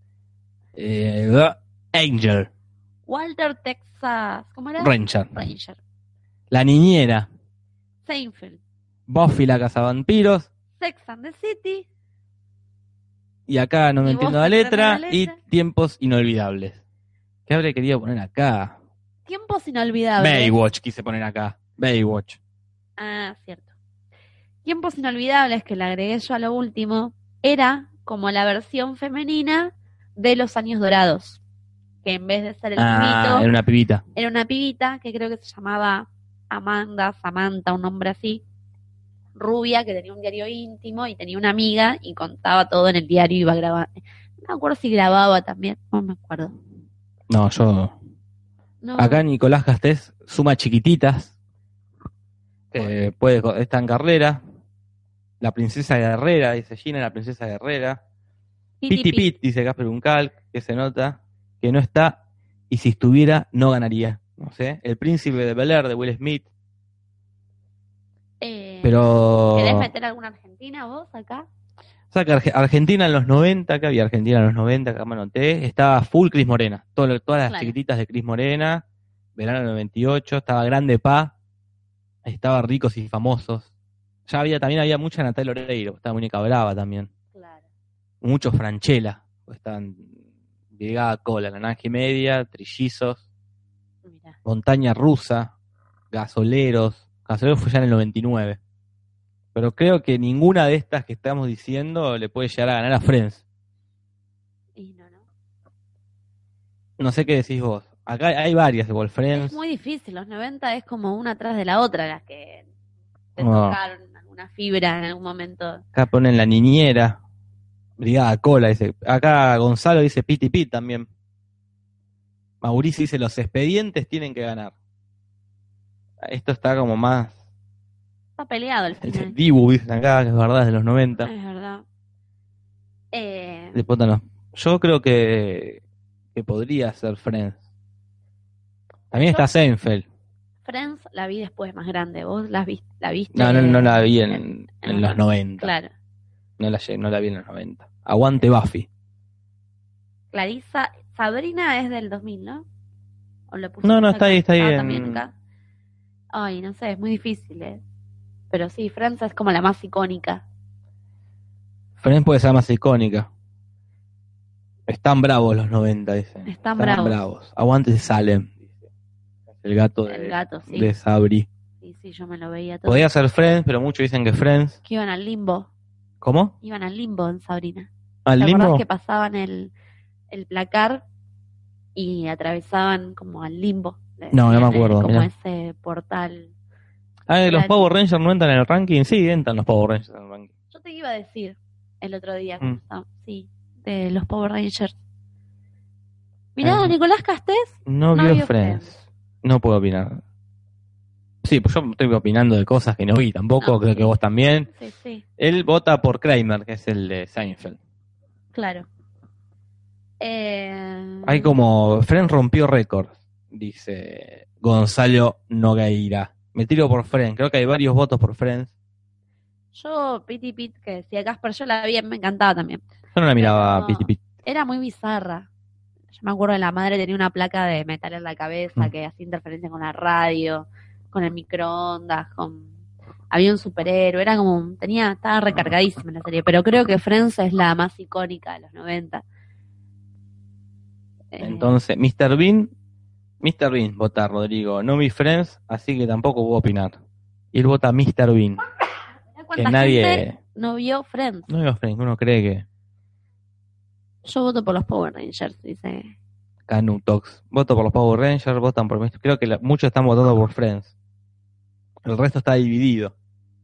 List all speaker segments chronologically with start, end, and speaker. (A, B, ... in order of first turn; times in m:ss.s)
0:00.8-0:02.5 A
0:03.1-0:05.8 B
0:04.8-0:05.4 A
0:06.5-0:07.3 A
0:08.1-0:08.6 B
0:09.1-0:10.5 A
0:10.8-0:11.8 B
0:13.5-0:16.8 A
0:14.0-0:15.4 B
0:17.5-0:18.8 A
0:19.3-0:20.5 B
0:20.2-0:22.4 A
0:23.0-0:23.7 B
0:24.6-0:31.4 B
0:32.0-0:33.5 B
0:32.8-0:34.0 A
0:34.2-0:38.4 B
0:39.4-0:43.9 B
0:44.4-0:46.5 B
0:47.3-0:47.9 A
0:48.8-0:49.2 B
0:49.0-0:51.4 A
0:52.7-0:54.4 A
0:52.8-0:53.1 B
0:55.4-0:58.0 A
0:58.8-0:59.3 B
0:58.9-1:02.2 A
1:02.7-1:06.5 A
1:08.4-1:09.0 B
1:08.8-1:09.9 A
1:09.6-1:11.5 B
1:12.1-1:18.8 A
1:17.5-1:17.8 B
1:19.4-1:21.3 A
1:22.2-1:23.7 A
1:24.3-1:27.1 A
1:27.4-1:27.6 B
1:28.2-1:30.1 A
1:30.7-1:33.2 A
1:34.1-1:34.4 B
1:34.4-1:35.5 A
1:36.1-1:38.6 A
1:39.6-1:43.4 A
1:44.8-1:45.2 B
1:47.0-1:49.6 A
1:49.3-1:52.6 B
1:53.4-1:55.8 B
1:53.4-1:53.8 A
1:56.0-1:57.2 A
1:58.0-2:01.1 A
2:02.6-2:04.7 A
2:06.2-2:07.4 A
2:08.4-2:09.3 B
2:09.0-2:11.3 A
2:11.2-2:11.8 B
2:13.1-2:13.8 B
2:13.7-2:15.8 A
2:16.4-2:17.6 A
2:19.1-2:20.1 A
2:20.6-2:25.9 B
2:23.3-2:25.7 A
2:26.6-2:28.9 A
2:30.3-2:32.6 B
2:33.5-2:35.3 B
2:33.8-2:35.2 A
2:36.3-2:37.8 B
2:38.5-2:40.4 B
2:42.0-2:43.3 A
2:44.9-2:48.6 A
2:46.5-2:47.2 B
2:49.6-2:51.5 A
2:50.1-2:50.9 B
2:51.8-2:53.0 B
2:52.8-2:54.8 A
2:54.8-2:55.7 B
2:56.2-2:56.5 A
2:56.6-2:59.7 B
2:58.3-2:58.8 A
3:00.3-3:01.0 B
3:02.0-3:06.5 B
3:04.3-3:05.3 A
3:07.3-3:10.5 A
3:07.4-3:07.9 B
3:10.7-3:14.9 B
3:16.6-3:18.9 B
3:16.6-3:16.9 A
3:17.9-3:20.2 A
3:21.4-3:24.7 A
3:23.6-3:24.1 B
3:24.7-3:25.2 B
3:25.4-3:27.8 A
3:28.5-3:28.9 B
3:30.2-3:31.5 B
3:31.2-3:38.7 A
3:39.7-3:42.8 B
3:43.1-3:44.2 A
3:43.4-3:45.5 B
3:46.1-3:52.7 B
3:53.3-3:59.2 B
4:01.3-4:01.8 B
4:01.4-4:02.7 A
4:03.4-4:07.0 A
4:07.5-4:08.6 A
4:09.4-4:11.5 B
4:09.6-4:10.4 A
4:11.5-4:12.7 A
4:14.2-4:16.1 B
4:16.7-4:20.9 A
4:22.0-4:23.1 A